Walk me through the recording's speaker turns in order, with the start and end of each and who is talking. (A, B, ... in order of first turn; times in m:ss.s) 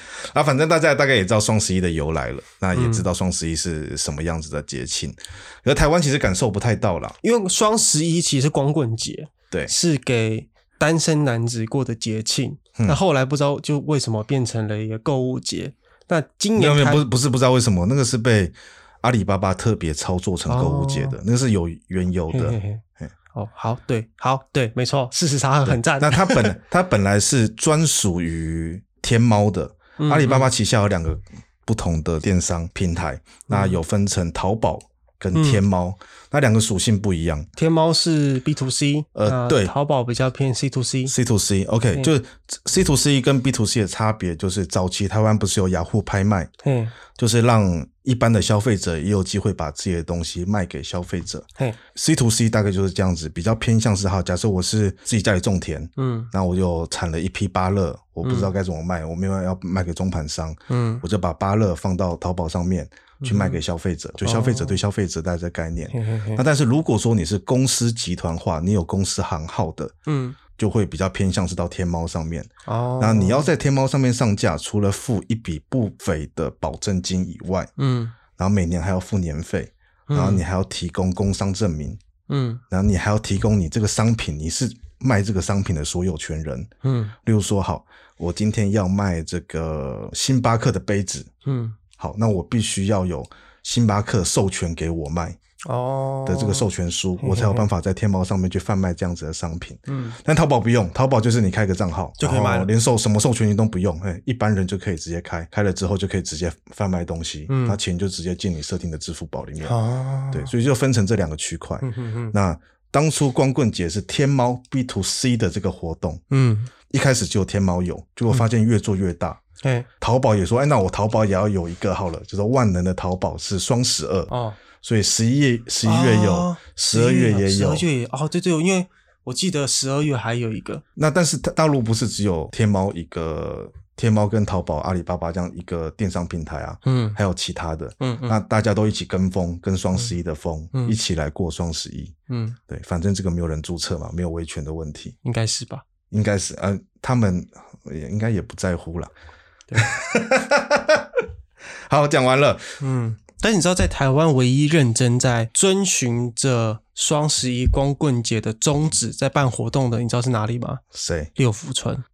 0:00.2-0:07.2 A
0:02.7-0:03.1 B
0:07.2-0:17.1 B
0:16.6-0:23.1 A
0:20.5-0:21.2 B
0:22.3-0:22.8 B
0:23.3-0:26.6 B
0:25.7-0:37.5 A
0:30.0-0:30.5 B
0:33.5-0:33.8 B
0:35.4-0:35.6 B
0:37.6-0:41.1 B
0:39.2-0:39.7 A
0:41.1-0:46.5 A
0:46.6-0:46.9 B
0:47.2-1:09.9 A
0:56.0-0:56.3 B
0:58.2-0:58.5 B
1:00.7-1:01.0 B
1:03.2-1:03.6 B
1:04.2-1:04.8 B
1:05.9-1:06.4 B
1:10.1-1:10.4 B
1:10.6-1:17.7 A
1:12.7-1:13.5 B
1:17.8-1:18.2 B
1:18.4-1:22.0 A
1:20.1-1:20.4 B
1:22.3-1:22.6 B
1:22.7-1:26.7 A
1:26.8-1:27.2 B
1:27.2-1:31.3 A
1:31.4-1:31.8 B
1:32.0-1:35.4 A
1:35.7-1:36.7 B
1:36.3-1:49.8 A
1:37.2-1:37.7 B
1:39.9-1:40.2 B
1:42.2-1:42.7 B
1:47.5-1:47.8 B
1:49.6-1:50.5 B
1:50.3-1:56.2 A
1:51.8-1:52.4 B
1:56.3-1:56.7 B
1:56.9-1:59.4 A
1:59.6-1:59.9 B
2:00.0-2:04.3 A
2:04.3-2:04.6 B
2:04.8-2:07.8 A
2:05.8-2:10.8 B
2:11.0-2:22.2 A
2:16.8-2:17.2 B
2:18.0-2:18.4 B
2:22.3-2:22.6 B
2:22.7-2:25.2 A
2:25.2-2:25.8 B
2:26.1-2:29.1 A
2:29.8-2:31.2 A
2:31.9-2:32.8 A
2:32.8-2:40.8 B
2:40.9-2:41.3 A
2:41.4-2:42.0 B